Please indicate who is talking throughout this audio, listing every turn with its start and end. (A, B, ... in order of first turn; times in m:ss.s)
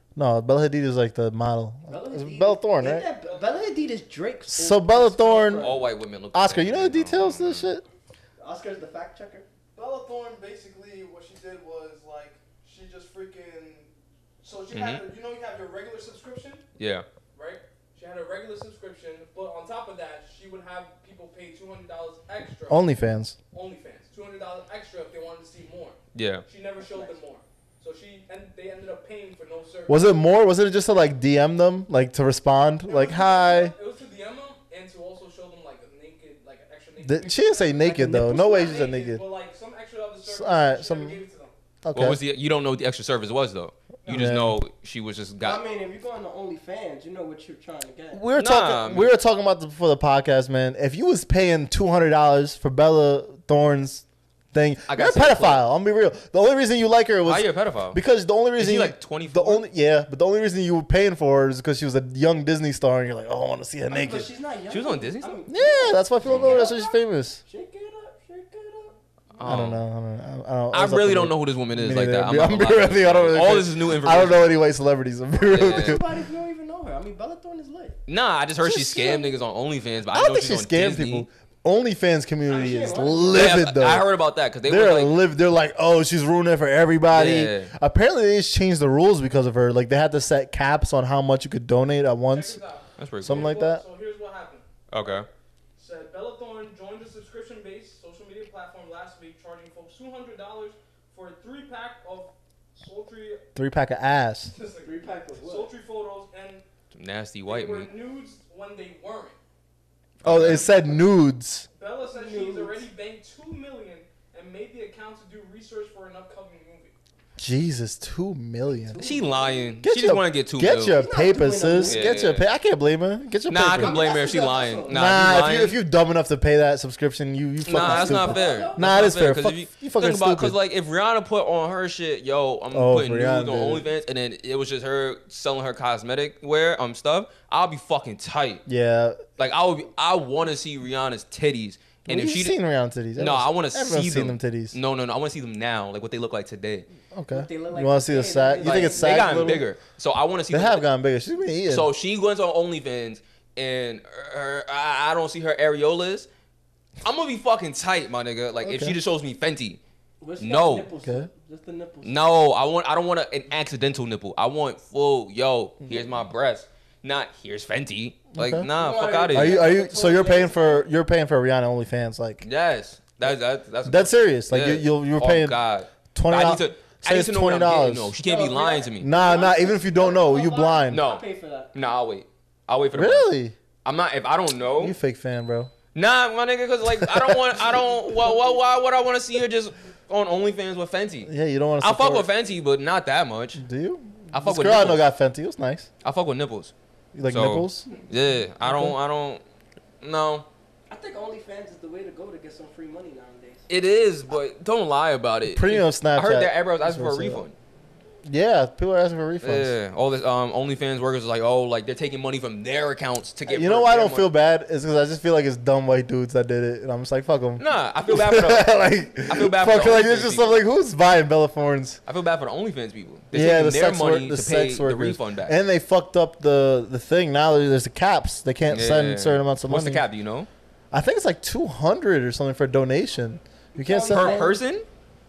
0:00.1-0:03.1 A
0:01.9-0:05.9 B
0:03.2-0:03.6 C
0:04.5-0:05.7 A
0:05.6-0:07.7 D
0:06.3-0:07.8 A
0:08.4-0:09.5 B
0:09.7-0:16.6 C
0:14.7-0:15.0 D
0:16.8-0:17.0 D
0:17.3-0:22.9 C
0:22.7-0:23.4 A
0:23.5-0:30.2 C
0:26.1-0:26.4 D
0:26.8-0:27.2 B
0:29.9-0:33.8 A
0:32.8-0:38.0 C
0:37.0-0:39.2 A
0:37.8-0:38.8 B
0:38.5-0:41.5 C
0:40.2-0:41.2 A
0:41.8-0:42.2 A
0:41.9-0:45.6 D
0:44.0-0:44.3 C
0:44.1-0:44.6 A
0:45.4-0:48.2 B
0:48.1-1:04.3 A
0:48.4-0:49.1 D
0:54.8-0:55.6 D
0:57.2-0:58.0 D
0:58.6-0:59.6 D
1:03.9-1:09.0 B
1:04.7-1:05.4 D
1:05.5-1:07.4 A
1:06.2-1:06.6 D
1:09.4-1:09.8 D
1:09.4-1:16.1 A
1:10.7-1:14.5 D
1:15.4-1:16.0 D
1:15.6-1:18.0 B
1:18.0-1:21.3 D
1:18.6-1:19.3 A
1:20.1-1:24.1 A
1:22.4-1:23.6 B
1:23.3-1:25.2 D
1:24.6-1:32.6 A
1:27.1-1:27.7 D
1:32.3-1:34.7 C
1:33.0-1:33.5 D
1:33.2-1:33.8 A
1:34.9-1:35.3 D
1:35.8-1:43.4 C
1:43.5-1:44.5 A
1:44.5-1:46.6 C
1:44.8-1:45.7 B
1:46.9-1:47.9 D
1:47.4-1:49.4 C
1:50.2-1:51.0 D
1:50.2-1:51.7 A
1:51.7-1:56.9 C
1:52.0-1:52.8 B
1:57.4-1:59.1 A
1:58.7-1:59.7 B
1:59.0-2:01.0 D
1:59.8-2:04.2 A
2:00.9-2:02.1 B
2:01.8-2:02.5 D
2:03.5-2:05.8 D
2:03.8-2:05.0 B
2:04.9-2:10.6 A
2:07.6-2:18.6 D
2:07.7-2:08.9 B
2:12.7-2:13.8 A
2:18.7-2:19.3 A
2:19.4-2:22.6 D
2:22.1-2:24.8 A
2:23.2-2:26.9 D
2:27.1-2:29.7 A
2:27.3-2:29.7 B
2:28.6-2:30.8 D
2:30.5-2:31.9 A
2:31.6-2:36.3 D
2:37.0-2:39.8 D
2:38.6-2:39.0 A
2:40.2-2:42.2 B
2:40.4-2:40.9 D
2:41.0-2:41.3 A
2:42.0-2:49.6 D
2:48.3-2:48.7 A
2:48.8-2:50.8 B
2:49.3-2:52.4 A
2:52.4-2:59.1 D
2:53.8-2:55.6 A
2:56.1-2:58.1 A
2:58.2-3:01.7 B
2:59.0-3:01.0 A
3:00.9-3:03.3 D
3:02.9-3:03.5 A
3:03.8-3:05.0 D
3:04.8-3:05.7 A
3:05.9-3:13.6 D
3:06.9-3:07.4 A
3:08.1-3:08.5 B
3:11.2-3:12.3 A
3:13.6-3:15.9 A
3:14.3-3:15.1 D
3:16.0-3:16.7 D
3:17.1-3:17.9 A
3:17.3-3:19.4 D
3:18.6-3:19.0 A
3:20.0-3:20.5 D
3:20.9-3:23.6 B
3:23.7-3:27.5 D
3:25.4-3:27.4 A
3:28.2-3:29.7 A
3:29.4-3:34.3 D
3:33.4-3:42.0 A
3:37.6-3:40.6 D
3:42.0-3:45.6 D
3:43.3-3:50.1 A
3:48.7-3:50.5 D
3:50.9-3:54.4 A
3:53.7-3:54.6 B
3:54.1-3:54.8 D